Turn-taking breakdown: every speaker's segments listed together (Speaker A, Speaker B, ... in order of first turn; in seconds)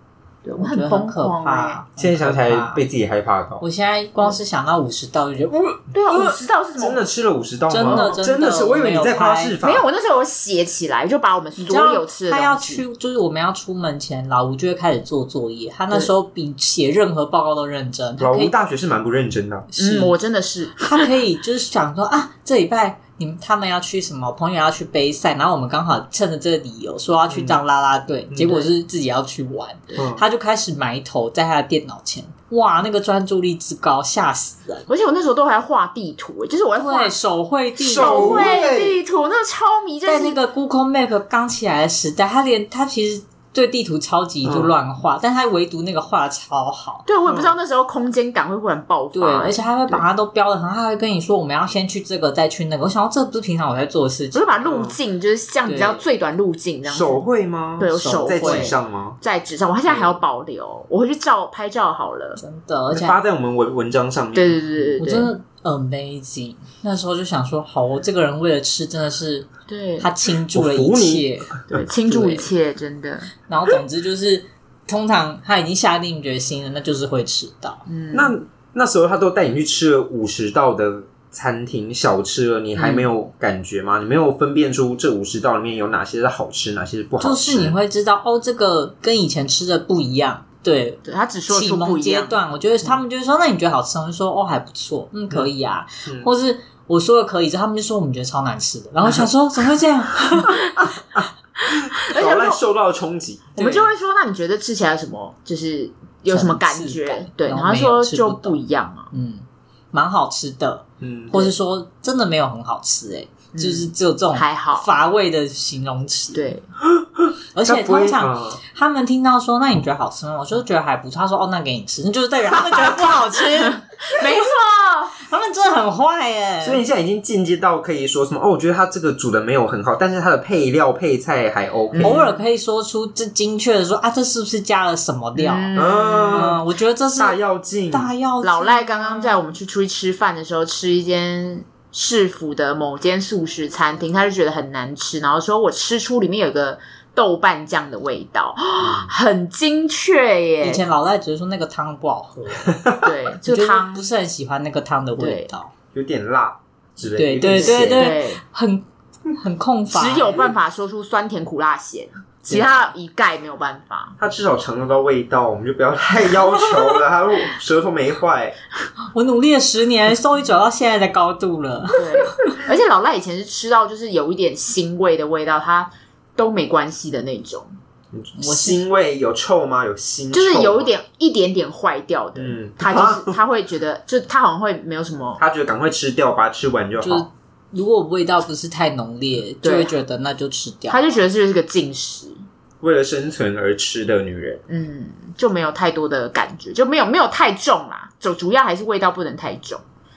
Speaker A: 0.4-1.8, 5.9-7.0, 7.8-8.2, 9.6-12.8, 19.8-20.8, 34.9-37.1, 37.9-40.4, 47.1-50.0, 54.3-57.2, 57.8-62.4, 64.3-65.3, 69.7-70.1, 71.7-73.3, 77.9-78.3, 91.0-92.4, 101.6-102.6, 103.5-109.1, 113.5-114.9, 116.3-116.6, 122.7-125.2, 131.9-132.4, 135.3-136.6, 138.4-150.8, 153.0-154.1, 155.2-155.5, 157.4-158.4, 159.9-164.2, 171.9-177.7, 180.3-185.4, 189.6-189.9, 190.9-192.4, 194.7-199.8
Speaker B: 0.6-2.8, 3.6-6.3, 7.7-9.6, 11.6-18.5, 19.7-20.1, 20.8-34.9, 36.8-38.6, 40.0-47.1, 49.1-54.6, 55.6-56.0, 57.9-58.7, 62.4-63.2, 65.0-69.5, 70.0-72.5, 73.5-77.8, 82.8-83.0, 87.2-100.6, 103.6-103.9, 106.3-108.6, 109.1-116.5, 117.5-124.4, 125.2-126.8, 132.0-137.4, 137.9-139.4, 150.6-152.8, 153.4-155.7, 157.2-160.4, 169.1-172.5, 178.4-178.8, 187.0-191.2
Speaker C: 2.0-3.6, 6.8-9.9, 18.2-19.7, 27.3-27.6, 28.3-28.7, 29.9-30.2, 37.8-39.0, 44.4-44.7, 47.2-47.5, 54.6-55.0, 56.9-59.2, 59.9-60.2, 62.9-64.9, 70.5-71.8, 78.1-87.7, 96.0-96.3, 100.4-101.2, 101.7-103.6, 111.0-111.5, 116.8-118.6, 126.6-132.2, 135.7-136.6, 137.2-138.1, 148.8-149.1, 155.9-158.1, 164.2-168.6, 178.1-180.9, 182.3-183.4, 185.4-187.3, 192.8-194.6